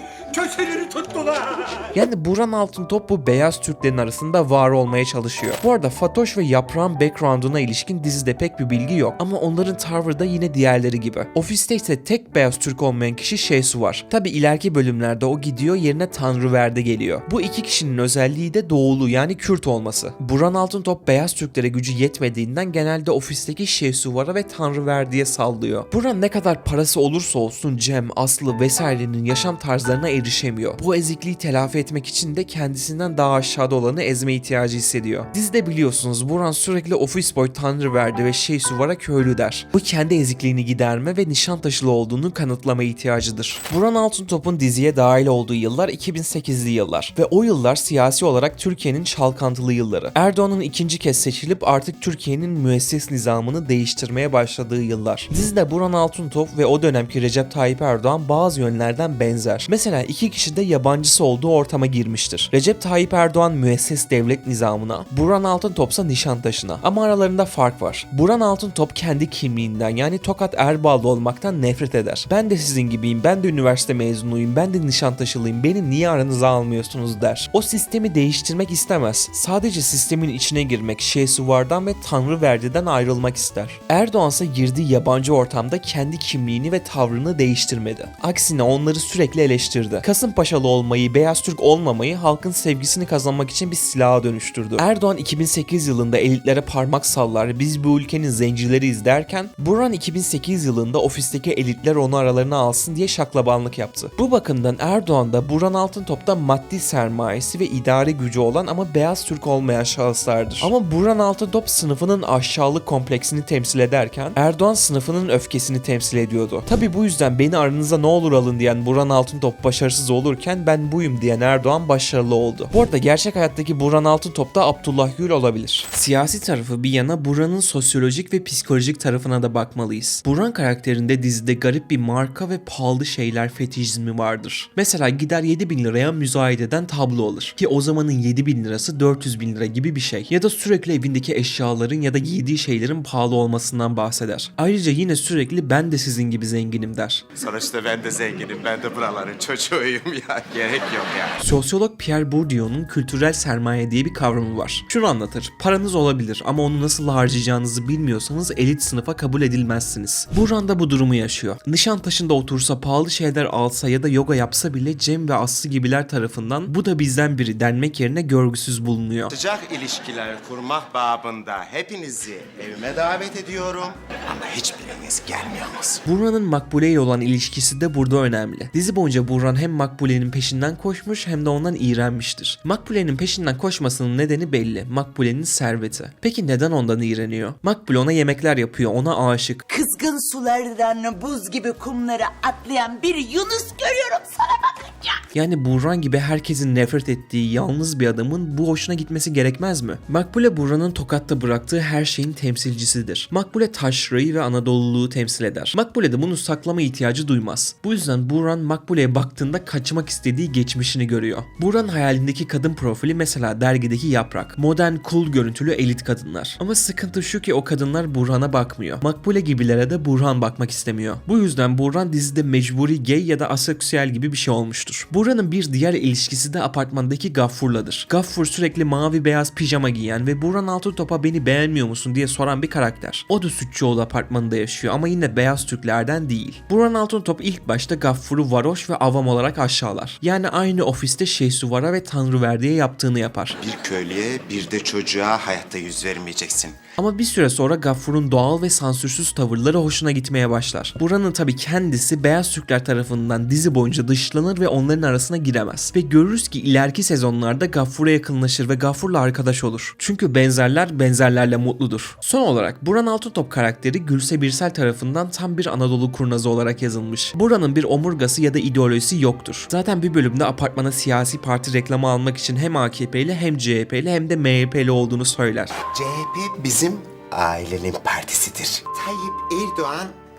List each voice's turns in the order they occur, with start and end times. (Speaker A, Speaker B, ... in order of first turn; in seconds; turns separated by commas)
Speaker A: 0.3-1.7, Speaker B: 1.9-147.3, Speaker A: 147.3-151.4, Speaker B: 151.4-169.3, Speaker A: 169.3-176.0, Speaker B: 176.1-189.7, Speaker C: 189.7-195.2, Speaker B: 195.3-243.6, Speaker A: 243.6-246.8, Speaker B: 247.0-275.8, Speaker A: 275.9-280.1